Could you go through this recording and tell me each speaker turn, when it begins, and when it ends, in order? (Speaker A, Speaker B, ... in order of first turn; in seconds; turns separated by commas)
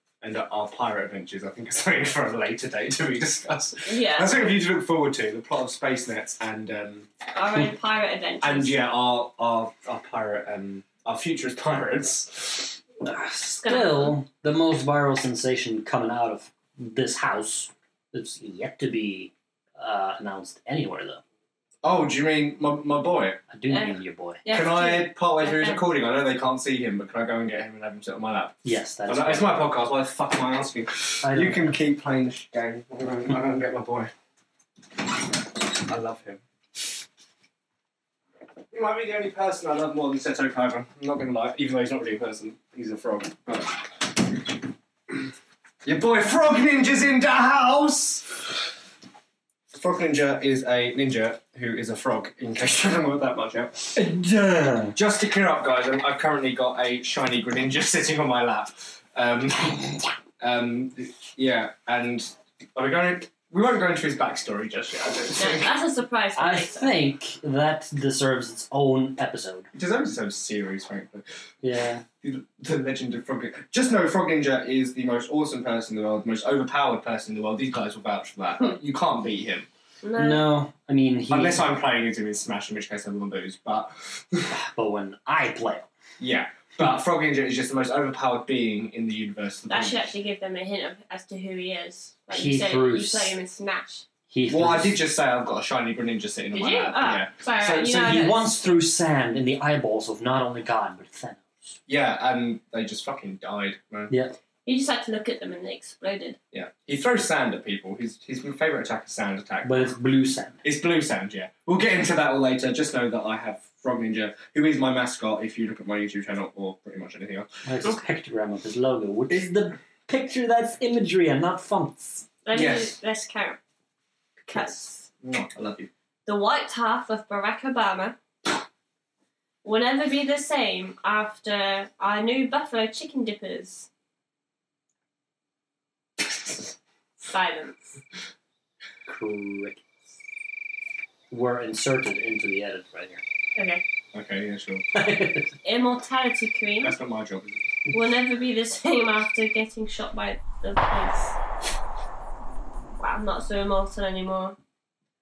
Speaker A: 0.2-7.1, Speaker B: 3.9-4.5, Speaker B: 7.3-8.8, Speaker A: 8.4-12.8, Speaker C: 13.0-21.2, Speaker B: 13.6-14.2, Speaker A: 21.8-23.4, Speaker C: 23.5-24.4, Speaker B: 23.7-25.8, Speaker A: 24.5-34.1, Speaker C: 28.6-29.6, Speaker C: 31.2-31.8, Speaker A: 35.6-36.4, Speaker A: 38.7-44.1, Speaker A: 45.8-48.5, Speaker A: 49.7-54.0, Speaker C: 53.9-55.0, Speaker A: 54.9-65.7, Speaker B: 65.3-66.9, Speaker C: 66.3-69.7, Speaker A: 69.7-71.2, Speaker C: 71.6-72.0, Speaker A: 72.2-79.7, Speaker B: 80.0-80.5, Speaker C: 80.2-81.6, Speaker A: 81.3-84.5, Speaker C: 84.5-85.9, Speaker A: 86.2-90.1, Speaker B: 89.7-94.0, Speaker C: 92.3-93.4, Speaker C: 94.3-95.0, Speaker A: 94.5-98.1, Speaker B: 96.5-98.5, Speaker C: 97.8-101.8, Speaker A: 101.9-104.1, Speaker C: 104.1-104.3, Speaker B: 104.6-106.4, Speaker A: 106.5-109.9, Speaker C: 109.6-110.6, Speaker A: 110.6-117.6, Speaker C: 117.6-122.3, Speaker B: 122.4-123.6, Speaker A: 122.5-123.0, Speaker B: 124.4-125.0, Speaker A: 124.5-125.9, Speaker B: 126.2-128.2, Speaker B: 129.6-133.9, Speaker B: 137.2-138.0, Speaker C: 139.1-139.8, Speaker C: 141.3-143.2, Speaker B: 143.6-143.8, Speaker A: 144.1-144.8, Speaker C: 144.9-145.5, Speaker B: 145.6-146.9, Speaker A: 146.8-147.8, Speaker B: 147.9-151.4, Speaker B: 153.0-154.6